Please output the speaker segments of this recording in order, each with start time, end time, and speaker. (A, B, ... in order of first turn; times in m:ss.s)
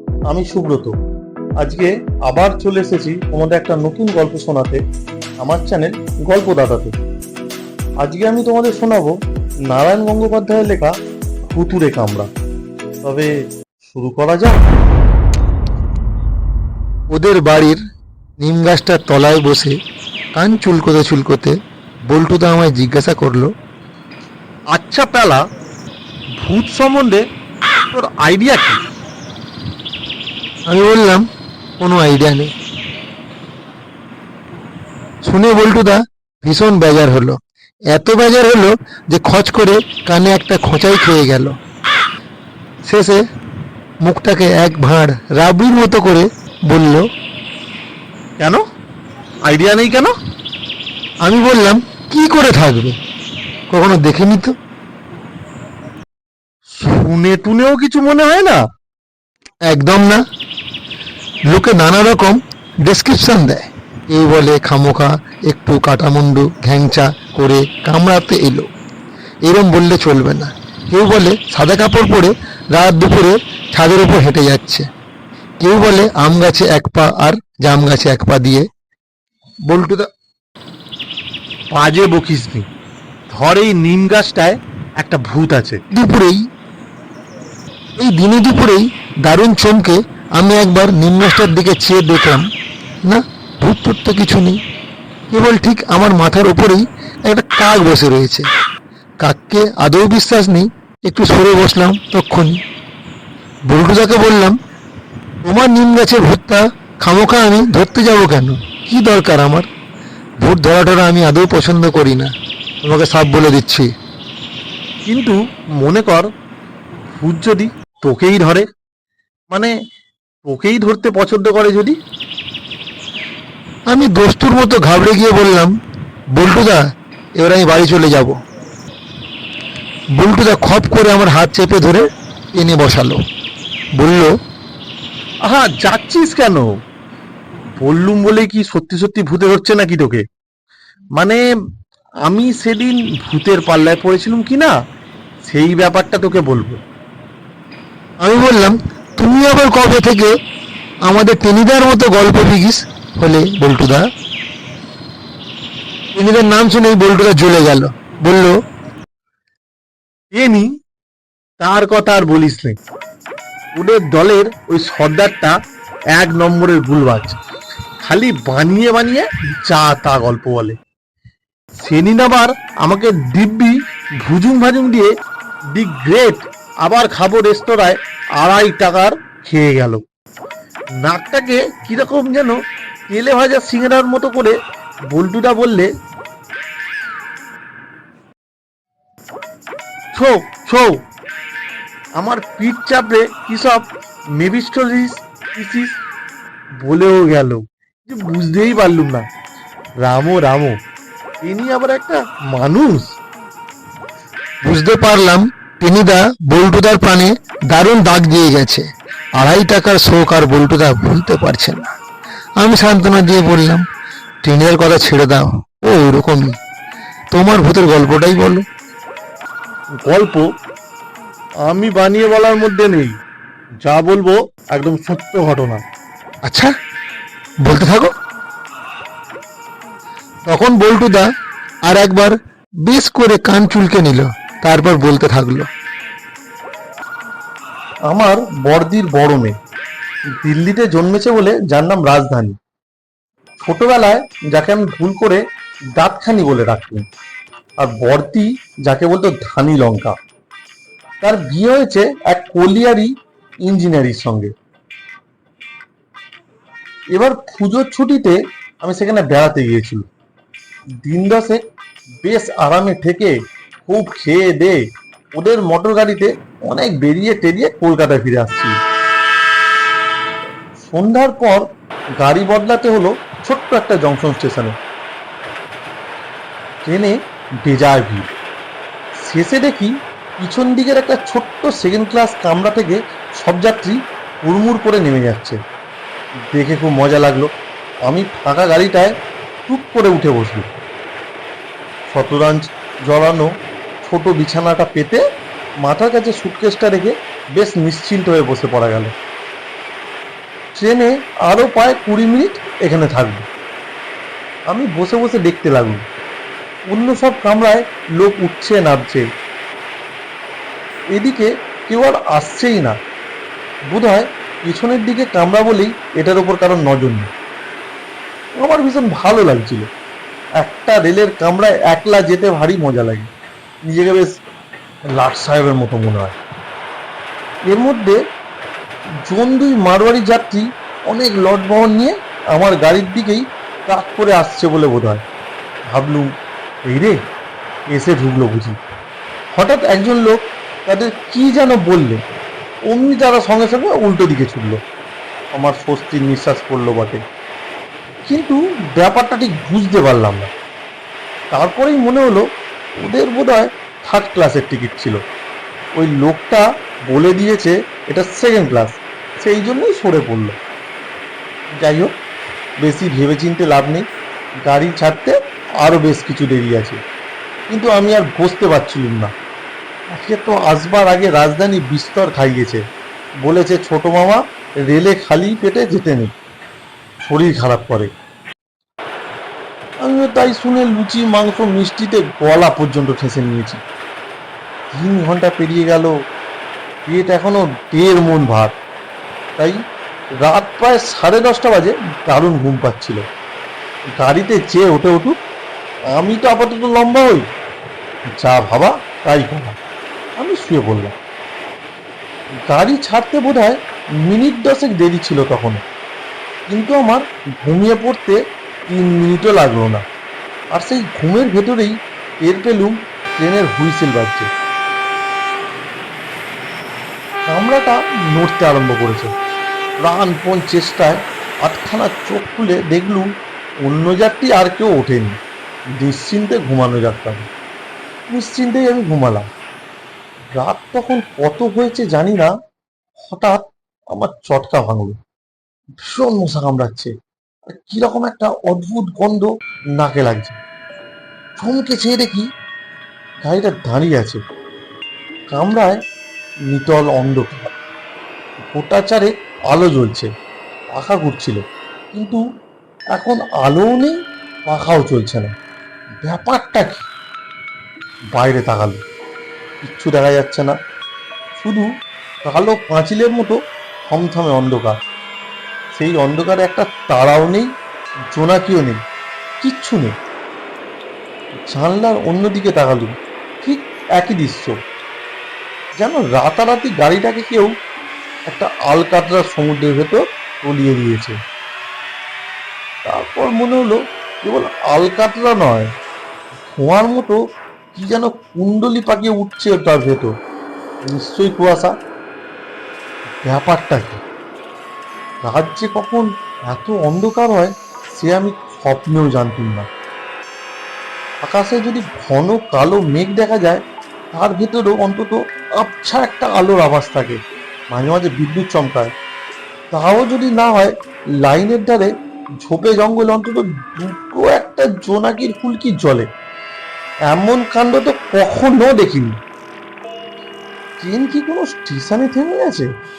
0:00.3-0:00.9 A
0:01.6-0:04.8 A
0:05.4-0:06.9 A
0:08.0-0:09.1 A
0:09.7-0:11.0 A
0:11.5-0:12.3 A
0:13.0-0:13.3 A
0:13.8-0:14.6 A
0:17.1-0:17.8 B
0:18.4-0:19.8 B
0:20.4-0:23.5 B
0:24.7-0:25.4 A
0:26.4-0:27.2 A
0:27.9-0:28.8 A
0:30.7-0:31.3 B
0:31.8-0:32.5 B
0:35.3-0:37.4 B
0:37.9-0:41.6 B
0:42.8-0:43.2 B
0:44.0-0:47.1 B
0:49.5-0:50.2 A
0:51.2-0:53.0 B
0:53.7-0:54.6 B
0:56.8-0:58.6 A
0:59.7-1:00.2 B
1:01.5-1:08.7 B
1:09.4-1:14.9 B
1:15.6-1:18.7 B
1:19.7-1:20.1 B
1:21.7-1:22.7 A
1:23.3-1:25.8 A
1:25.9-1:26.4 B
1:28.0-1:32.5 B
1:33.0-1:34.6 B
1:35.3-1:38.5 B
1:39.2-1:42.6 B
1:43.7-1:44.6 B
1:45.4-1:49.7 B
1:50.4-1:52.3 B
1:52.8-1:53.9 B
1:55.0-1:56.3 A
1:57.1-1:58.7 A
2:00.4-2:02.0 A
2:03.9-2:05.8 B
2:06.4-2:06.9 B
2:07.4-2:08.4 B
2:10.1-2:13.2 B
2:14.0-2:14.3 B
2:15.5-2:16.7 A
2:17.8-2:20.2 A
2:21.2-2:21.4 A
2:22.3-2:24.7 A
2:25.5-2:26.8 A
2:28.2-2:30.3 B
2:31.0-2:34.1 B
2:36.1-2:38.6 B
2:40.3-2:40.7 A
2:41.6-2:42.8 A
2:43.8-2:45.6 A
2:46.1-2:47.4 A
2:48.0-2:50.8 A
2:51.8-2:55.1 A
2:55.7-3:00.0 A
3:01.0-3:02.6 A
3:03.1-3:04.6 A
3:05.1-3:05.9 A
3:10.1-3:10.9 A
3:12.2-3:16.0 A
3:16.8-3:19.3 A
3:20.0-3:20.8 A
3:21.4-3:23.1 A
3:24.6-3:31.9 B
3:32.6-3:33.8 B
3:34.4-3:36.6 B
3:37.3-3:38.6 B
3:40.0-3:40.5 A
3:41.6-3:43.2 A
3:43.8-3:45.8 A
3:46.4-3:46.7 B
3:47.6-3:48.1 B
3:50.5-3:51.3 B
3:51.8-3:55.7 B
3:58.1-3:59.6 A
4:00.4-4:02.6 A
4:03.6-4:05.4 A
4:06.0-4:07.0 A
4:07.8-4:10.2 A
4:11.2-4:13.1 A
4:13.7-4:14.5 A
4:17.1-4:20.1 A
4:21.0-4:21.6 A
4:22.2-4:24.8 A
4:25.4-4:28.7 A
4:30.8-4:31.7 A
4:32.2-4:34.8 A
4:36.8-4:38.3 A
4:39.2-4:45.6 A
4:46.5-4:47.5 A
4:48.1-4:49.1 A
4:49.7-4:50.7 A
4:52.1-4:53.5 A
4:54.0-4:55.2 A
4:55.8-4:59.1 A
5:00.8-5:03.4 A
5:04.7-5:06.0 A
5:06.9-5:09.2 A
5:11.2-5:13.0 A
5:13.9-5:17.3 A
5:18.6-5:19.9 A
5:20.6-5:23.3 A
5:23.9-5:24.3 A
5:25.1-5:26.4 A
5:27.7-5:28.2 A
5:29.2-5:35.2 A
5:35.9-5:36.3 A
5:36.9-5:37.2 A
5:37.9-5:38.8 A
5:39.6-5:42.2 A
5:42.9-5:44.8 A
5:45.5-5:47.2 A
5:48.3-5:50.5 A
5:51.5-5:52.5 A
5:53.0-5:55.2 A
5:56.0-6:00.6 A
6:01.8-6:02.1 A
6:02.8-6:04.0 A
6:04.6-6:07.0 A
6:07.7-6:09.3 A
6:10.1-6:12.8 A
6:13.4-6:16.3 A
6:17.2-6:18.1 A
6:20.0-6:23.8 A
6:24.9-6:26.1 A
6:27.1-6:28.7 A
6:30.4-6:33.2 A
6:34.1-6:35.4 A
6:36.1-6:37.5 A
6:38.3-6:39.8 A
6:40.4-6:41.1 A
6:42.7-6:45.8 A
6:46.7-6:48.4 A
6:48.9-6:50.0 A
6:50.7-6:54.5 A
6:57.5-6:59.3 A
7:00.0-7:03.3 A
7:03.8-7:05.4 A
7:06.0-7:07.5 A
7:08.3-7:09.5 A
7:10.6-7:12.5 A
7:13.3-7:15.2 A
7:16.0-7:17.1 A
7:17.7-7:20.6 A
7:21.6-7:22.5 A
7:23.4-7:24.4 A
7:25.5-7:26.0 A
7:26.7-7:27.7 A
7:28.6-7:30.3 A
7:31.0-7:31.6 A
7:32.1-7:32.4 A
7:33.2-7:34.2 A
7:34.7-7:35.5 A
7:36.2-7:37.1 A
7:38.4-7:39.0 A
7:39.8-7:40.8 A
7:41.6-7:41.9 A
7:42.4-7:43.6 A
7:44.1-7:45.0 A
7:46.0-7:47.7 A
7:48.3-7:49.0 A
7:49.6-7:50.1 A
7:51.7-7:54.8 A
7:56.0-7:57.7 A
7:58.5-8:01.4 A
8:03.1-8:05.9 A
8:06.7-8:07.4 A
8:07.9-8:10.3 A
8:11.1-8:11.9 A
8:13.4-8:14.2 A
8:15.4-8:19.9 A
8:21.4-8:23.8 A
8:24.3-8:27.4 A
8:27.9-8:29.1 A
8:29.9-8:32.1 A
8:32.6-8:36.3 A
8:37.3-8:39.4 A
8:41.0-8:42.9 A